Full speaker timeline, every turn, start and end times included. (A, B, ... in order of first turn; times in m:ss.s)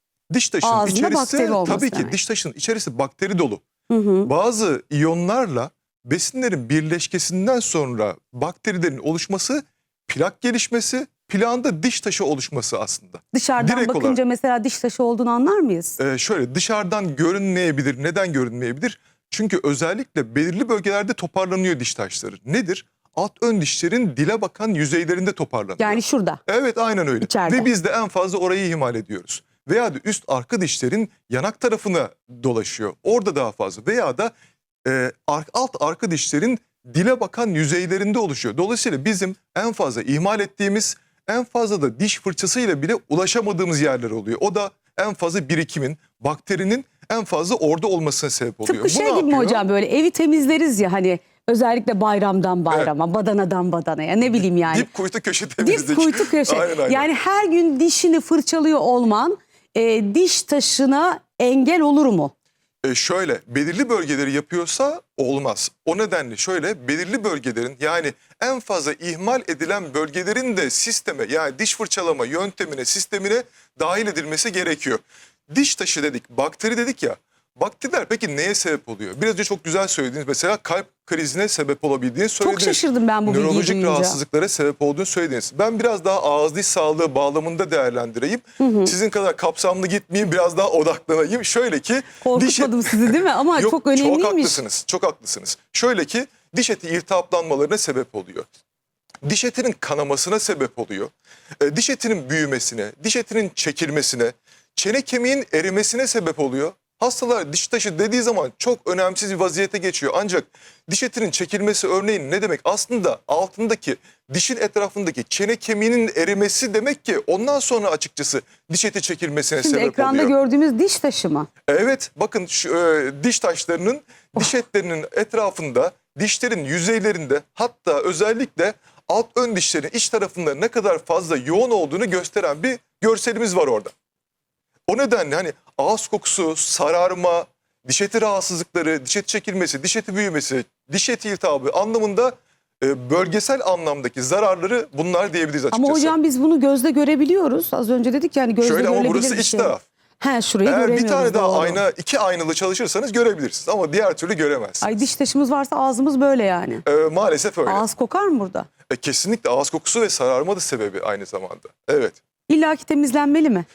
0:00.3-0:03.6 A
0:00.6-0:02.2 B
0:03.9-0:04.3 B
0:04.2-0:14.2 A
0:13.3-0:16.0 B
0:16.0-0:34.3 A
0:25.8-0:26.4 B
0:27.2-0:27.7 B
0:34.8-0:49.6 A
0:48.6-0:54.9 B
0:54.3-0:57.1 A
0:55.6-1:02.3 B
1:02.8-1:38.5 A
1:22.4-1:24.2 B
1:28.6-1:28.9 B
1:32.2-1:34.6 B
1:39.2-2:00.3 A
1:59.6-2:01.5 B
2:01.7-2:13.9 A
2:14.9-2:26.2 A
2:25.7-2:31.8 B
2:28.6-2:29.8 A
2:30.6-2:34.9 A
2:34.8-2:36.8 B
2:36.8-2:37.8 A
2:37.7-2:38.7 B
2:38.9-2:42.2 A
2:42.5-2:43.7 B